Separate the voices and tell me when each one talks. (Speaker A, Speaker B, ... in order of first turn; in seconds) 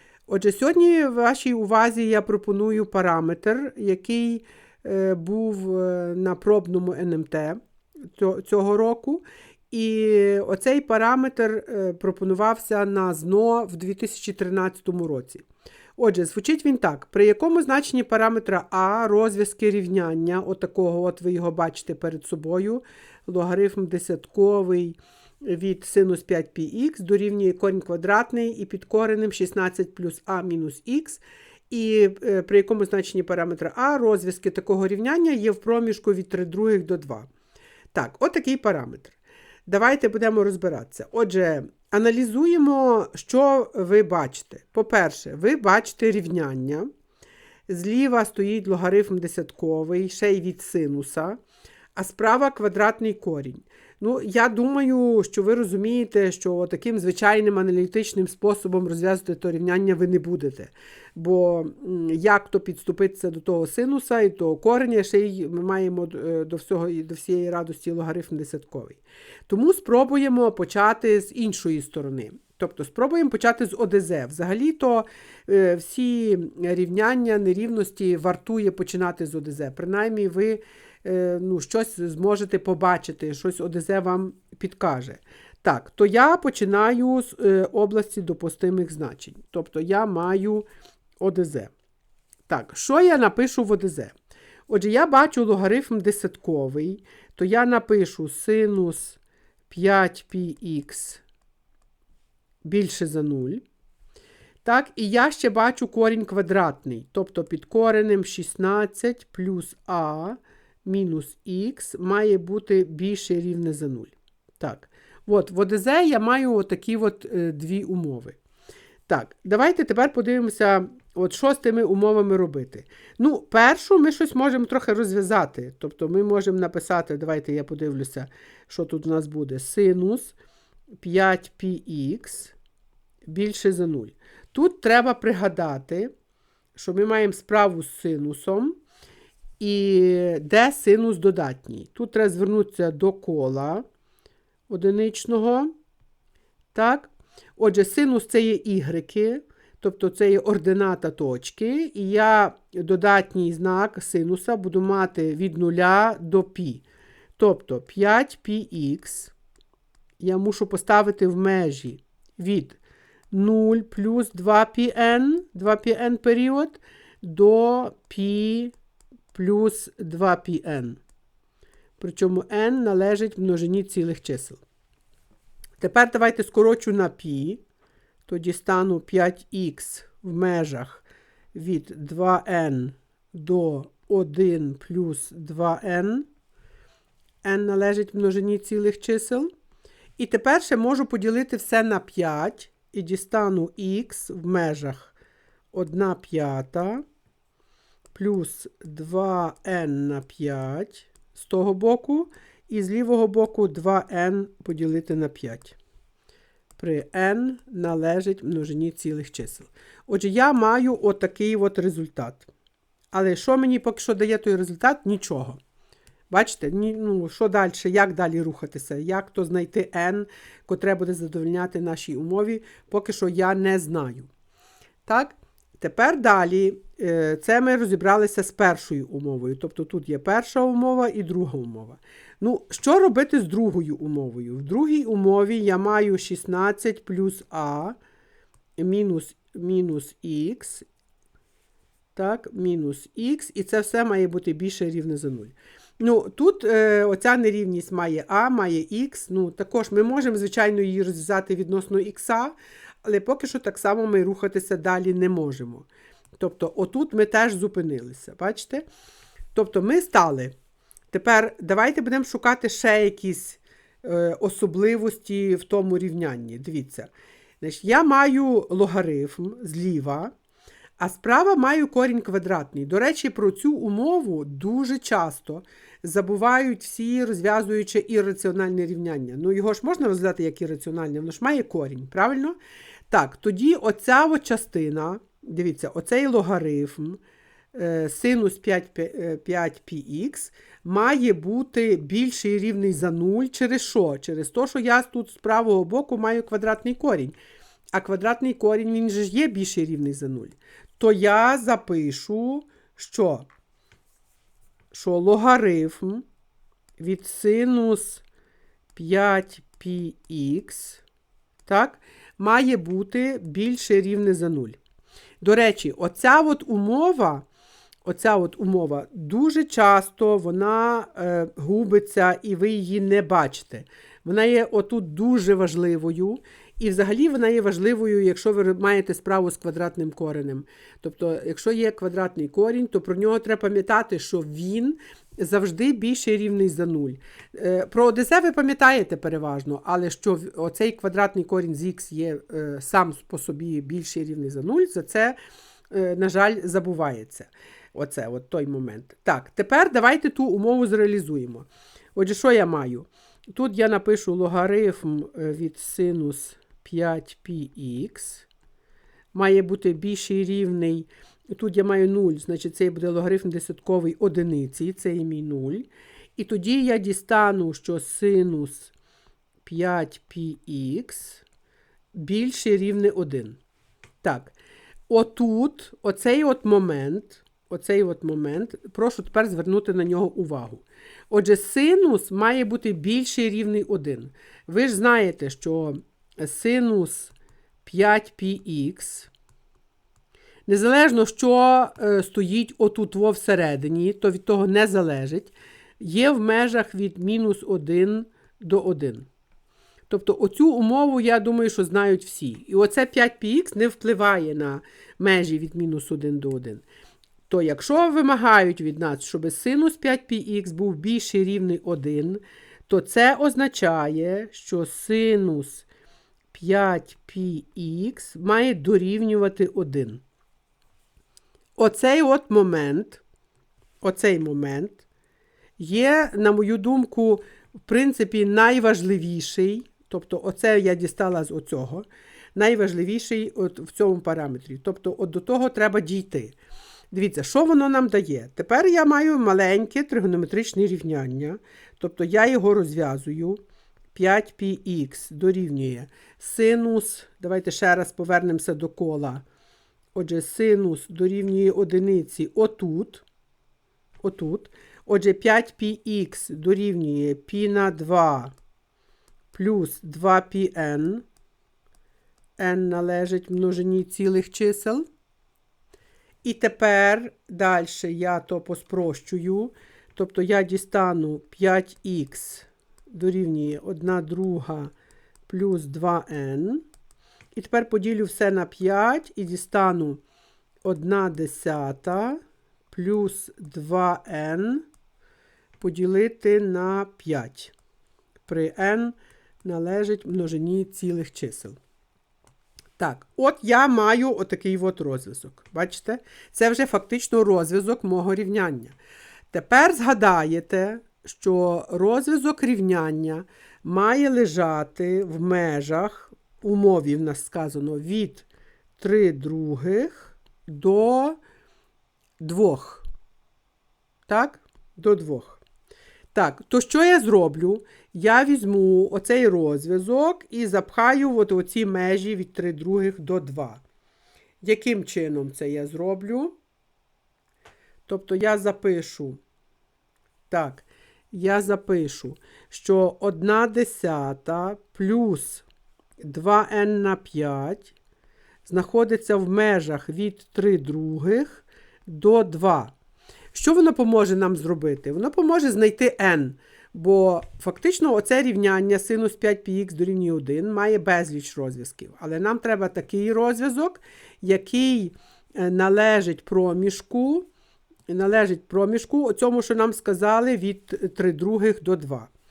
Speaker A: 0.3-7.6, 8.1-15.4, 16.0-37.3, 37.9-46.9, 47.7-51.4, 51.9-90.6, 91.2-91.7, 92.5-94.2, 94.7-101.2, 102.6-103.6, 104.6-118.4, 119.1-130.3, 131.0-132.5, 133.2-136.1, 136.7-138.8, 139.6-143.8, 144.7-145.7, 146.7-156.8, 157.4-159.3, 160.2-162.8, 163.3-168.7, 169.3-171.0, 172.0-174.6, 175.8-177.6, 178.2-186.3, 187.4-189.5, 190.2-195.1, 195.7-197.0, 198.1-205.8, 206.8-212.5, 213.1-215.6, 216.3-224.3, 225.1-237.9, 238.8-240.9, 242.1-258.8, 259.5-260.5, 261.1-267.1, 267.6-270.3, 271.0-282.6, 283.1-287.2, 287.7-297.3, 297.9-303.5, 304.9-306.2, 307.0-308.2, 308.9-311.0, 311.6-314.8, 315.4-317.4, 318.0-345.4, 345.9-358.5, 359.3-368.9, 369.6-371.4, 372.1-373.6, 374.2-374.5, 375.1-389.3, 390.7-399.3, 400.1-406.8, 407.5-415.8, 416.5-420.2, 421.8-423.2, 424.0-425.1, 425.8-436.6, 437.1-443.6, 444.1-449.4, 450.1-453.2, 454.2-458.5, 459.5-461.2, 462.6-465.0, 466.4-474.9, 475.5-476.8, 477.5-480.2, 480.8-482.4, 482.9-484.8, 485.8-487.7, 488.4-491.8, 493.0-498.9, 499.5-508.5, 509.0-511.4, 512.4-513.0, 514.3-515.6, 516.3-523.8, 524.6-526.5, 528.0-529.4, 530.5-535.6, 536.2-538.0, 538.6-542.9, 543.5-557.5, 558.1-562.3